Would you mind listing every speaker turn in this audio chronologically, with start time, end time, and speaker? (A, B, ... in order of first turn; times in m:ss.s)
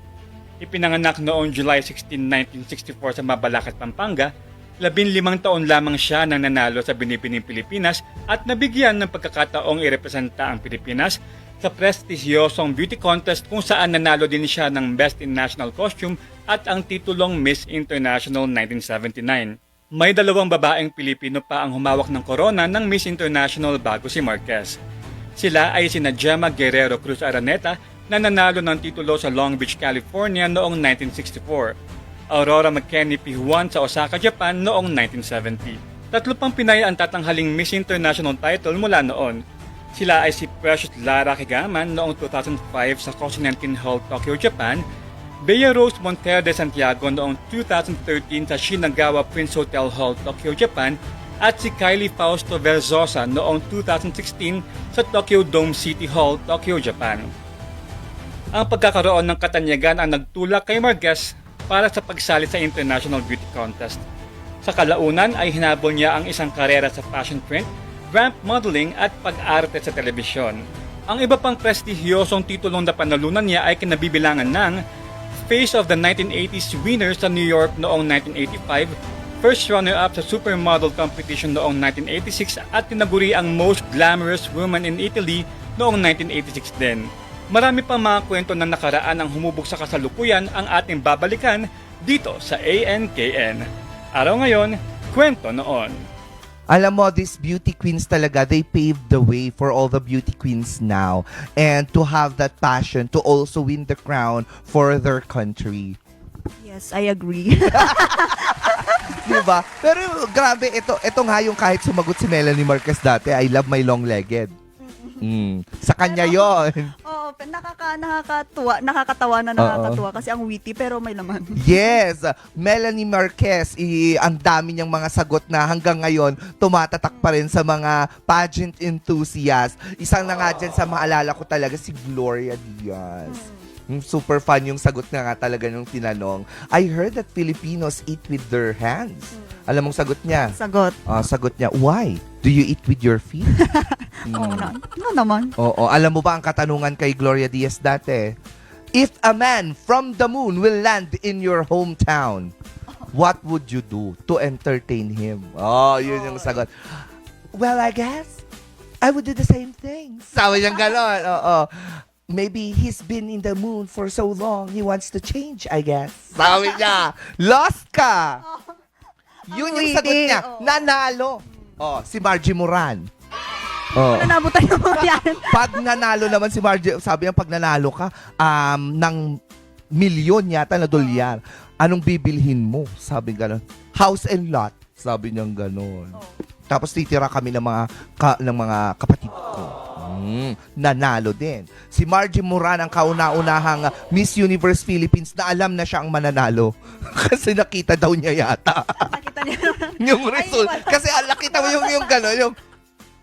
0:00.6-0:24.8 A
0:25.4-0:31.7 A
0:32.3-0:39.4 A
0:39.9-0:44.8 A
0:45.4-0:57.3 A
0:58.5-1:04.0 A
1:04.6-1:14.8 A
1:15.4-1:36.0 A
1:36.7-1:46.0 B
1:46.6-1:49.4 C
1:47.7-1:54.5 B
1:54.8-1:55.4 C
1:55.2-1:56.9 B
1:56.0-2:02.0 C
1:59.6-2:00.0 B
2:01.6-2:20.5 B
2:13.2-2:13.6 C
2:19.3-2:19.7 C
2:20.5-2:21.0 C
2:21.0-2:23.5 B
2:23.5-2:25.5 C
2:24.2-2:24.7 B
2:25.6-2:28.4 B
2:28.9-2:32.5 B
2:33.1-2:38.4 B
2:36.0-2:36.6 C
2:39.0-2:48.4 B
2:46.4-2:46.9 C
2:48.4-2:48.7 C
2:49.4-2:50.9 C
2:49.5-2:53.1 B
2:53.9-2:55.8 C
2:53.9-2:54.4 B
2:54.9-2:59.4 B
2:59.9-3:19.1 B
3:19.0-3:22.3 C
3:20.0-3:22.6 B